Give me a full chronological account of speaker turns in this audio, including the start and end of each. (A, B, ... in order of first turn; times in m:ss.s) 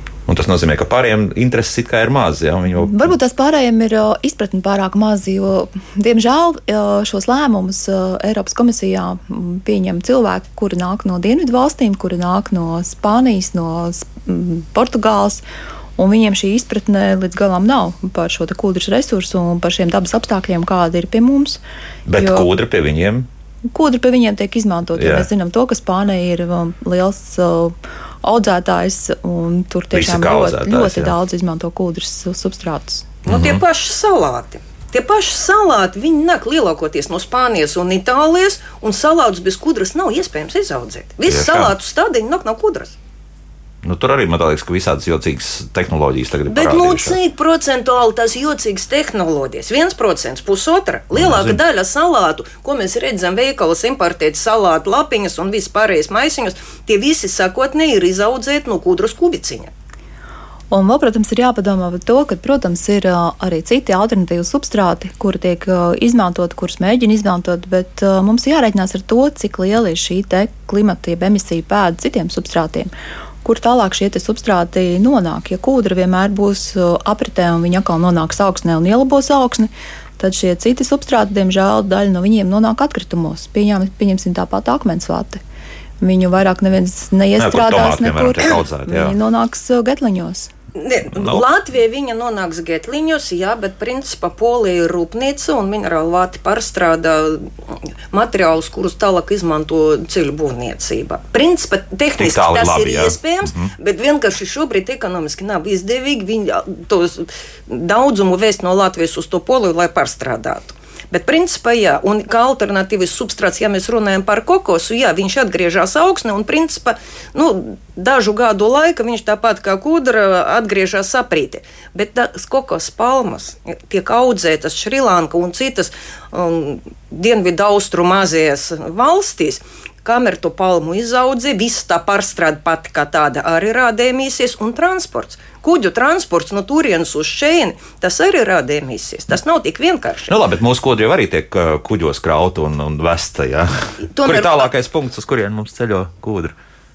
0:00.3-0:03.1 A
0:02.8-0:15.4 B
0:16.0-0:22.5 B
0:22.0-0:23.3 A
0:23.7-0:33.1 B
0:25.0-0:25.3 A
0:29.9-0:31.1 A
0:33.2-0:43.0 C
0:33.2-0:33.6 A
0:41.2-0:41.7 A
0:43.8-0:47.2 A
0:46.5-0:59.7 C
0:51.1-0:51.6 A
1:00.7-1:12.9 B
1:13.4-1:25.4 B
1:26.0-1:30.5 B
1:27.4-1:29.2 A
1:30.8-1:37.5 C
1:31.1-1:31.4 A
1:38.1-2:20.3 C
1:42.2-1:43.7 A
2:20.3-2:26.5 A
2:24.0-2:24.7 C